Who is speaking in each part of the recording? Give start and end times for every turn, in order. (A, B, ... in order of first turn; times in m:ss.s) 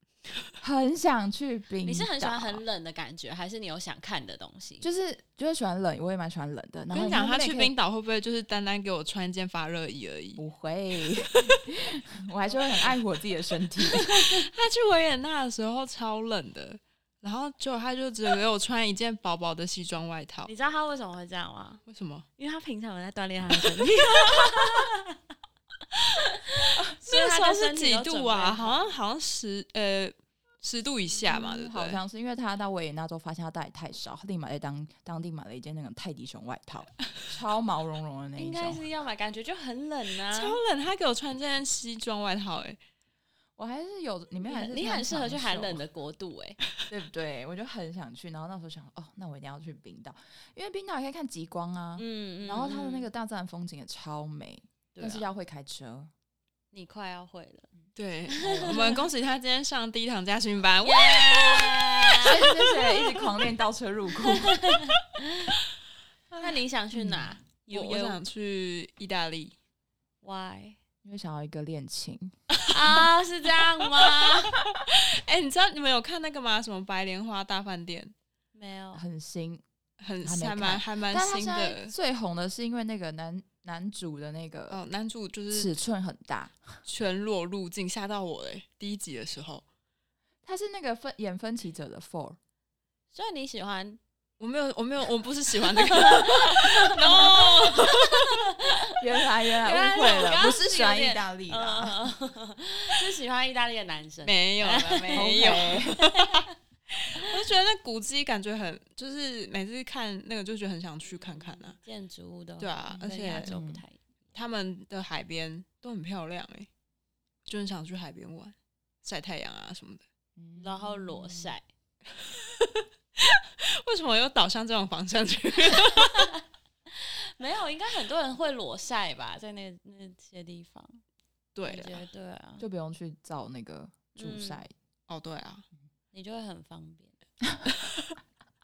0:00.6-0:02.6 A
0:01.8-0:04.9 B
0:04.8-0:07.7 A
0:06.9-0:10.4 C
0:10.4-0:14.2 A
0:11.3-0:11.6 C
0:13.9-0:20.5 C
0:20.5-0:21.8 B
0:21.9-0:22.3 C
0:22.4-0:25.2 B
0:24.3-0:24.6 C
0:26.1-0:28.8 B
0:27.0-0:32.0 C
0:31.2-0:38.8 A
0:38.4-0:40.6 B
0:40.3-0:42.8 C
0:43.6-0:45.8 A
0:44.4-0:46.6 B
0:46.9-0:56.1 A
0:52.0-0:53.1 B
0:54.9-0:55.3 B
0:56.7-0:57.7 B
0:58.0-1:02.5 C
0:58.3-0:59.0 B
0:58.4-0:59.0 A
1:00.8-1:03.2 B
1:02.2-1:04.8 A
1:04.3-1:05.6 B
1:06.3-1:07.3 A
1:06.4-1:08.2 B
1:07.6-1:09.6 C
1:10.2-1:10.8 B
1:11.0-1:12.3 A
1:12.5-1:13.0 C
1:12.7-1:14.6 B
1:13.8-1:18.1 C
1:18.5-1:19.0 B
1:18.9-1:19.6 A
1:20.0-1:21.9 C
1:20.2-1:24.8 A
1:24.7-1:25.7 C
1:25.5-1:26.8 A
1:26.8-1:29.6 C
1:30.4-1:32.4 A
1:33.1-1:34.0 B
1:34.4-1:38.4 C
1:35.9-1:39.0 B
1:39.0-1:42.1 A
1:39.6-1:46.5 B
1:44.2-1:51.8 C
1:45.1-1:46.0 A
1:51.8-1:54.0 B
1:52.6-1:53.6 C
1:52.9-1:53.8 A
1:54.3-1:56.7 C
1:57.4-2:00.0 C
2:00.4-2:01.5 A
2:00.6-2:01.6 B
2:02.2-2:06.3 C
2:05.9-2:06.4 B
2:06.9-2:11.0 B
2:11.5-2:12.0 C
2:11.6-2:12.6 B
2:12.6-2:14.7 A
2:14.1-2:14.6 B
2:15.1-2:15.6 C
2:16.1-2:17.1 B
2:17.4-2:17.7 A